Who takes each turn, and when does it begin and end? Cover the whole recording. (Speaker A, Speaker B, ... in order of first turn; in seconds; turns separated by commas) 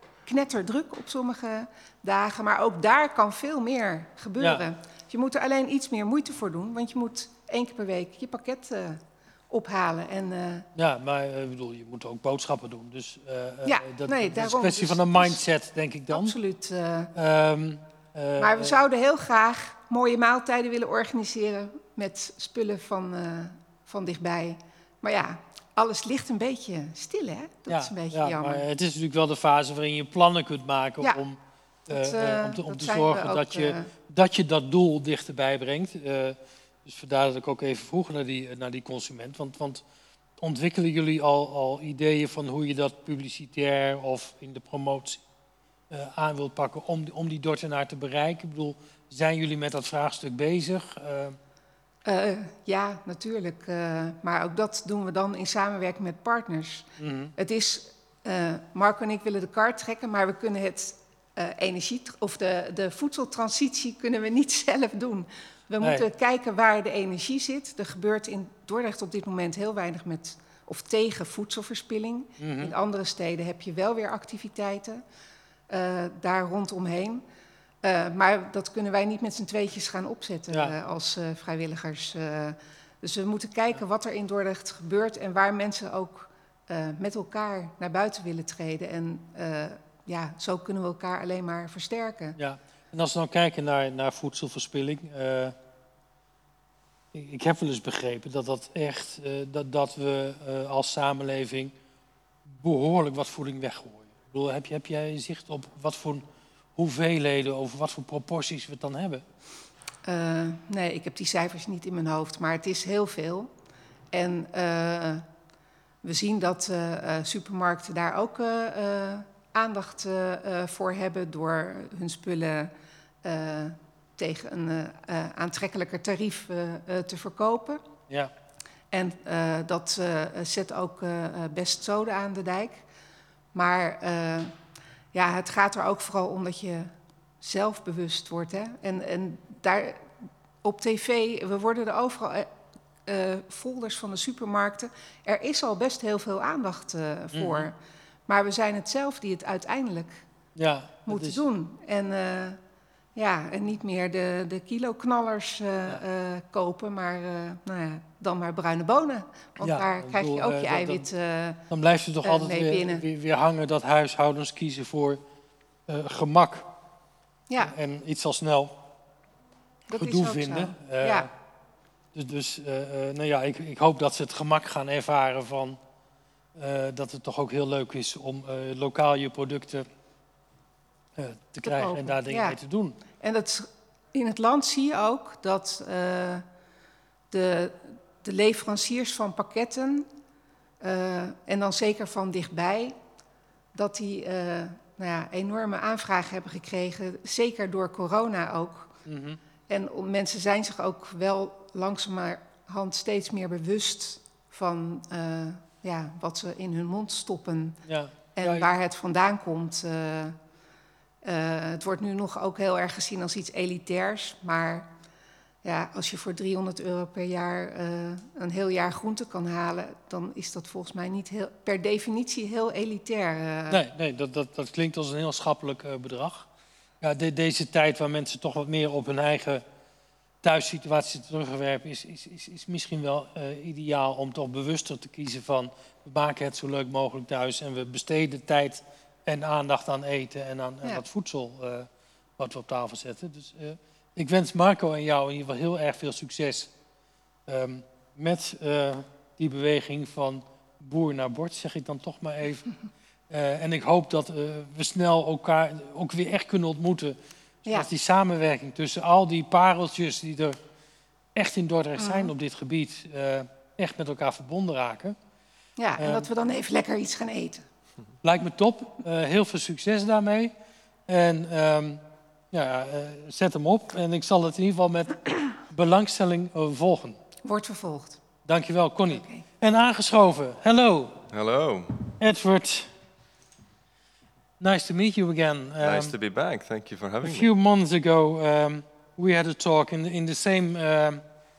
Speaker A: 0.2-10.7, Speaker B: 4.4-4.7, Speaker B: 10.7-16.4, Speaker A: 13.6-15.4, Speaker A: 16.1-17.1, Speaker B: 17.1-18.8, Speaker A: 18.4-28.6, Speaker B: 27.7-31.4, Speaker A: 31.9-33.9, Speaker B: 31.9-39.8, Speaker B: 40.4-45.2, Speaker B: 45.9-51.4, Speaker A: 52.0-56.9, Speaker B: 57.0-57.3, Speaker A: 57.4-75.0, Speaker B: 65.8-66.1, Speaker B: 72.4-72.7, Speaker A: 75.7-77.2, Speaker A: 77.8-92.4, Speaker B: 92.4-95.6, Speaker B: 97.1-101.7, Speaker B: 102.4-109.2, Speaker A: 110.0-113.5, Speaker A: 114.1-115.2, Speaker A: 116.0-127.8, Speaker A: 128.9-132.8, Speaker A: 133.5-134.5, Speaker A: 135.1-140.1, Speaker A: 140.6-142.5, Speaker A: 143.0-147.8, Speaker B: 147.3-147.7, Speaker A: 148.3-150.2, Speaker B: 150.6-151.4, Speaker A: 151.1-152.6, Speaker A: 153.1-161.6, Speaker B: 159.6-161.1, Speaker B: 161.7-165.2, Speaker A: 162.2-163.0, Speaker B: 165.9-166.7, Speaker A: 167.5-167.7, Speaker B: 167.6-168.8, Speaker A: 169.9-171.3, Speaker B: 169.9-171.3, Speaker B: 172.1-175.8, Speaker B: 176.5-179.8, Speaker B: 181.2-183.0, Speaker A: 181.6-182.6, Speaker A: 183.1-186.4, Speaker A: 187.3-190.1, Speaker A: 190.8-192.9, Speaker A: 193.7-198.9, Speaker B: 199.1-199.4, Speaker A: 199.7-207.8, Speaker B: 207.8-208.7, Speaker A: 208.3-210.4, Speaker A: 211.2-214.9, Speaker A: 215.6-223.8, Speaker B: 223.7-226.5, Speaker B: 227.0-229.6, Speaker B: 230.4-246.7, Speaker B: 247.5-252.7, Speaker B: 253.3-260.6, Speaker B: 261.3-265.1, Speaker A: 262.0-262.3, Speaker A: 265.8-267.6, Speaker B: 266.0-266.3, Speaker B: 268.2-270.5, Speaker B: 271.1-277.2, Speaker A: 277.4-278.2, Speaker B: 278.4-281.2, Speaker A: 279.1-279.4, Speaker C: 281.3-282.1, Speaker B: 282.2-282.9, Speaker B: 284.6-286.1, Speaker C: 285.8-287.5, Speaker B: 287.2-291.2